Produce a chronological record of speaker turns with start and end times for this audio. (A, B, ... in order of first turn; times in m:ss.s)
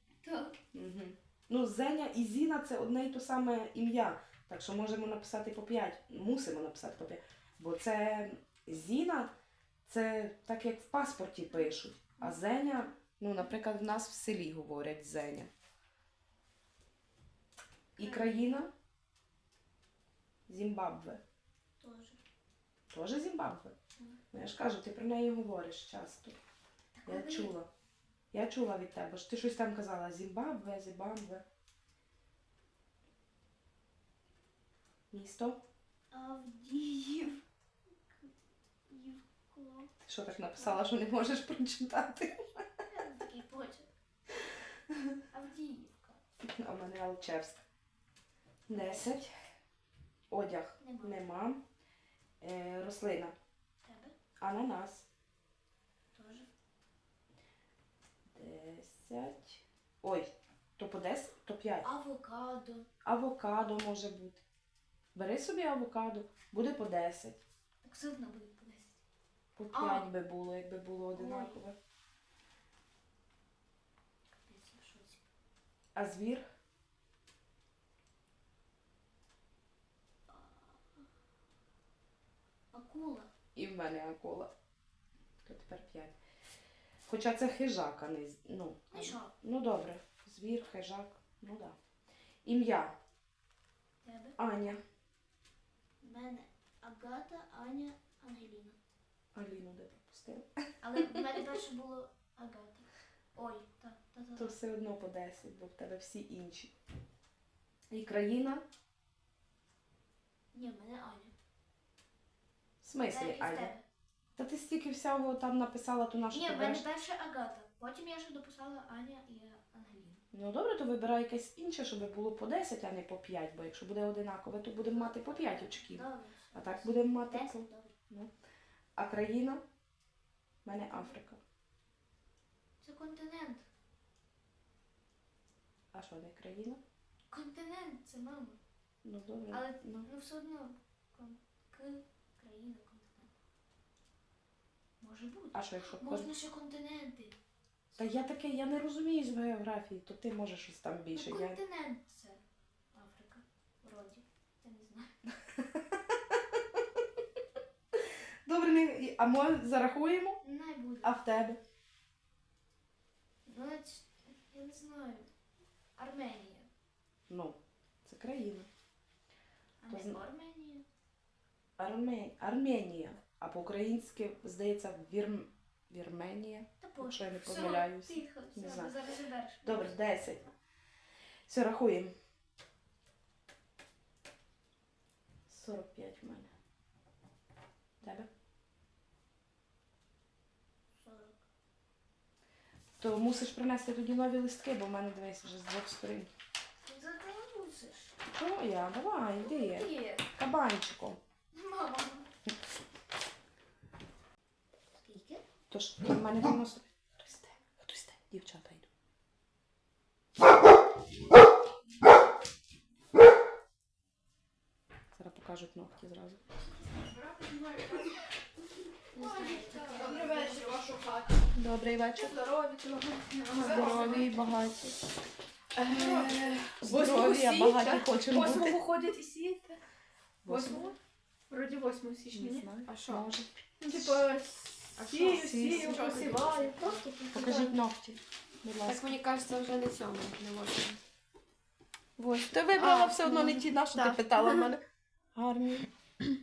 0:00.2-0:00.6 A
0:00.7-0:09.3 B
0:09.8-0:15.5 B
0:18.0-0:18.7 B
0:18.0-0:18.5 A
0:20.5-0:21.2 B
0:21.8-0:22.2 A
0:22.9-0:23.7 B
0:24.3-0:26.4 B
0:27.0-0:27.5 A
0:27.1-0:27.7 B
0:28.3-0:31.4 B
0:35.1-0:35.6 B
0:36.1-0:37.4 A
0:38.9-0:41.0 A
0:40.0-0:42.6 B
0:42.9-0:43.9 A
0:45.3-0:46.2 A
0:46.4-0:47.6 B
0:48.7-0:49.3 B
0:48.7-0:49.2 A
0:50.3-0:51.6 B
0:50.8-0:51.2 A
0:52.4-0:53.4 B
0:53.8-0:54.2 A
0:54.4-0:55.1 B
0:56.1-0:56.5 A
0:58.4-1:01.9 B
1:01.8-1:02.9 A
1:03.0-1:04.4 B
1:05.2-1:07.4 B
1:07.8-1:09.0 A
1:09.6-1:11.8 B
1:09.7-1:10.1 A
1:11.1-1:11.6 A
1:14.5-1:15.2 A
1:16.0-1:16.4 B
1:20.3-1:21.0 A
1:22.7-1:23.3 A
1:23.5-1:24.5 B
1:25.4-1:26.2 B
1:27.1-1:31.8 B
1:28.9-1:29.3 A
1:32.4-1:33.0 B
1:34.0-1:34.4 A
1:34.4-1:34.8 B
1:36.0-1:38.8 A
1:39.4-1:40.5 B
1:40.8-1:44.6 A
1:44.4-1:46.7 B
1:47.9-1:48.6 B
1:50.5-1:51.3 A
1:52.8-1:53.7 B
1:53.1-1:53.8 A
1:54.4-1:56.8 B
1:56.3-2:00.2 A
2:00.3-2:08.3 B
2:04.8-2:08.0 A
2:09.0-2:09.6 B
2:10.6-2:11.4 B
2:10.7-2:11.2 A
2:12.8-2:13.7 A
2:15.9-2:16.8 B
2:17.3-2:18.6 A
2:19.0-2:20.1 B
2:19.5-2:23.3 A
2:25.0-2:27.4 A
2:25.5-2:26.3 B
2:28.0-2:31.6 B
2:31.2-2:32.4 A
2:32.9-2:35.2 A
2:38.5-2:40.4 B
2:40.4-2:41.2 A
2:41.0-2:41.6 B
2:43.5-2:45.3 A
2:46.0-2:46.7 A
2:47.3-2:48.7 B
2:49.8-2:50.8 A
2:49.9-2:50.2 B
2:51.8-2:58.9 B
2:56.8-3:00.0 A
2:59.6-3:00.5 B
3:01.5-3:02.1 B
3:05.5-3:06.5 B
3:08.0-3:08.3 B
3:11.0-3:11.4 A
3:13.0-3:16.3 B
3:16.8-3:18.2 A
3:18.3-3:21.2 B
3:19.4-3:20.3 A
3:21.5-3:22.3 A
3:25.0-3:25.4 A
3:25.7-3:28.9 B
3:35.1-3:36.4 B
3:37.0-3:38.2 C
3:39.1-3:40.8 A
3:39.2-3:41.5 C
3:41.5-3:42.4 B
3:42.2-3:44.4 C
3:43.5-3:44.4 A
3:43.6-3:44.9 B
3:45.8-3:49.8 C
3:45.9-3:48.8 B
3:50.4-3:50.9 B
3:50.4-3:51.0 C
3:50.6-3:50.9 A
3:51.5-3:53.3 C
3:52.2-3:52.6 A
3:52.3-3:53.5 B
3:53.8-3:57.7 C
3:55.0-3:57.7 A
3:55.2-3:56.0 B
3:57.3-3:59.1 B
3:58.8-4:01.0 C
4:02.3-4:04.8 B
4:02.7-4:04.7 C
4:05.4-4:05.9 B